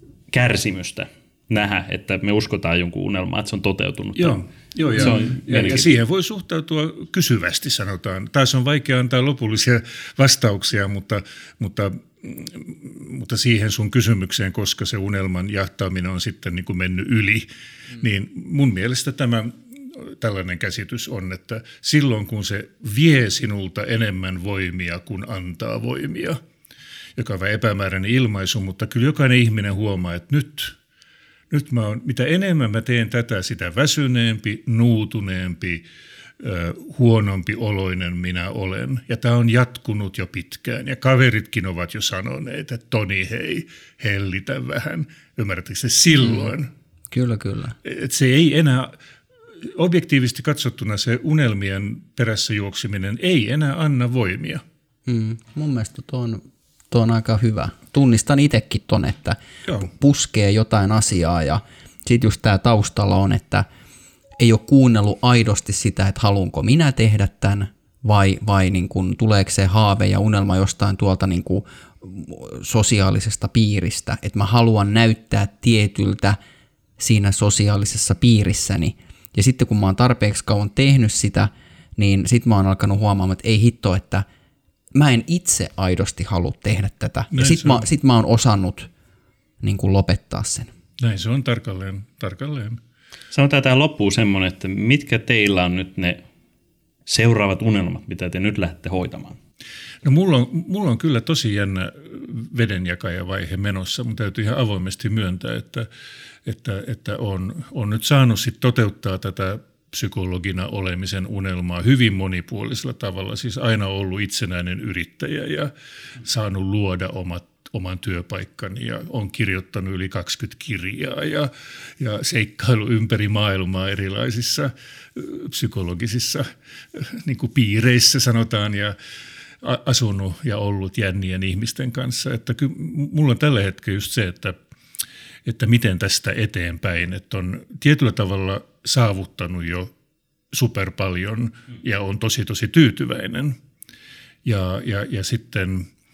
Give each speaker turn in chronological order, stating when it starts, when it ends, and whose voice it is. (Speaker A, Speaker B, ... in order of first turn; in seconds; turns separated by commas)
Speaker A: 0.3-4.4, Speaker B: 4.2-26.4, Speaker A: 4.9-5.9, Speaker B: 27.1-30.8, Speaker B: 31.5-35.9, Speaker B: 36.4-46.7, Speaker C: 47.1-47.8, Speaker B: 47.8-49.0, Speaker B: 49.6-54.6, Speaker C: 55.1-63.6, Speaker C: 64.4-76.4, Speaker C: 77.0-84.3, Speaker C: 84.9-88.9, Speaker B: 87.3-87.8, Speaker C: 89.6-90.7, Speaker B: 91.0-92.8, Speaker A: 93.3-96.2, Speaker A: 97.1-99.4, Speaker B: 100.0-105.9, Speaker B: 106.4-128.9, Speaker B: 129.6-134.6, Speaker B: 135.4-139.9, Speaker B: 140.5-143.6, Speaker B: 144.4-145.9